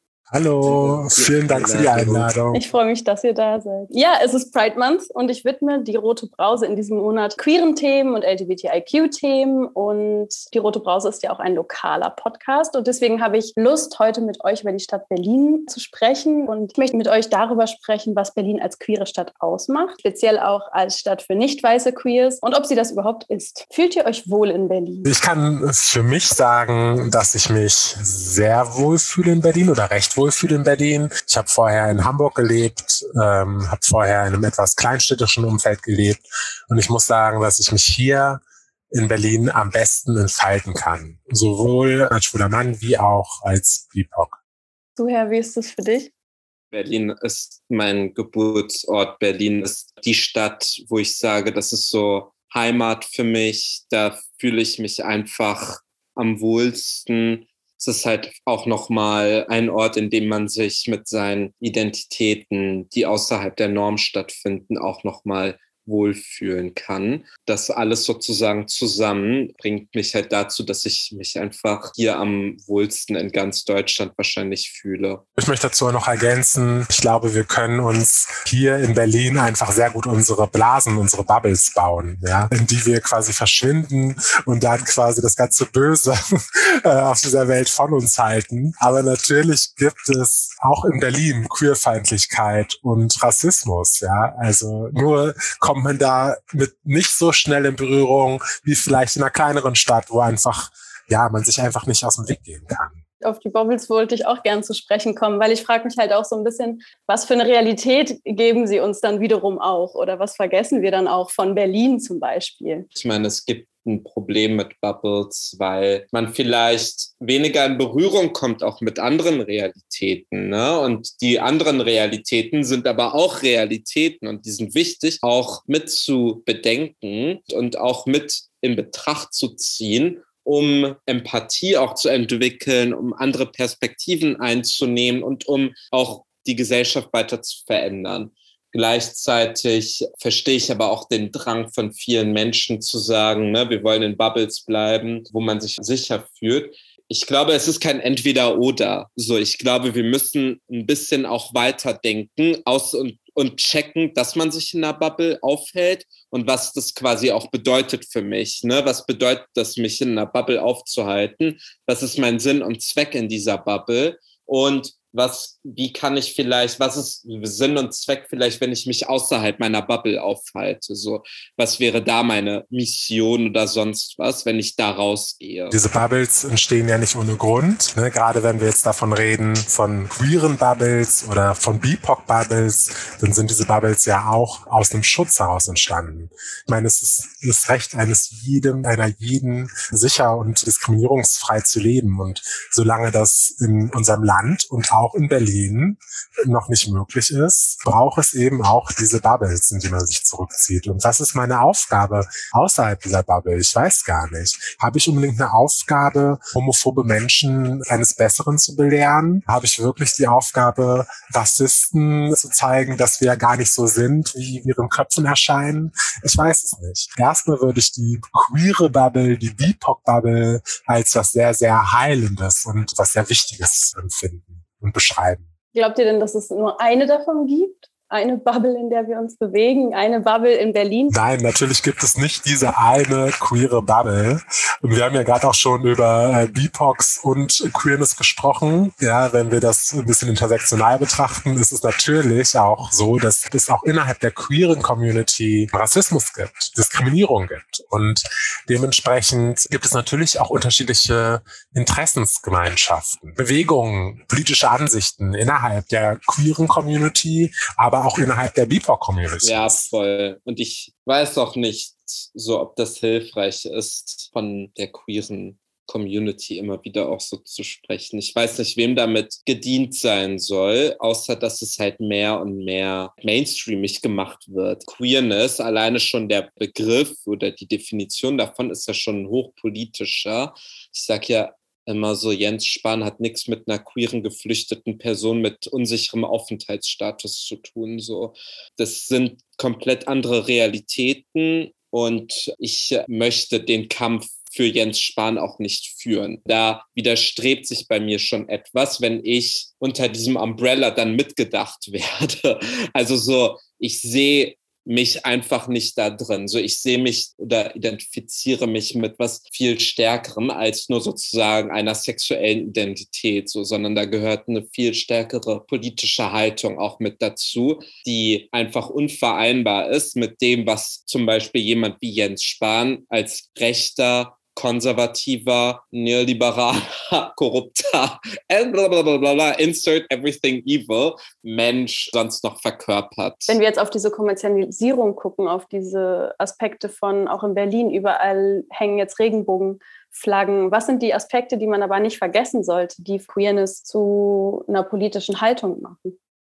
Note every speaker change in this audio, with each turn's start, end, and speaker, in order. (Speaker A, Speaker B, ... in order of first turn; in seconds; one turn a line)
Speaker A: 0.3-2.6
Speaker B: 0.6-2.3
Speaker C: 2.5-25.1
Speaker A: 25.1-44.4
Speaker C: 45.0-46.1
Speaker B: 46.7-75.2
Speaker A: 75.4-103.0
Speaker C: 103.2-112.9
Speaker B: 113.0-175.8
Speaker A: 175.7-225.4
Speaker C: 225.7-231.1
Speaker A: 231.1-259.9
Speaker B: 259.4-333.6
Speaker C: 333.5-346.2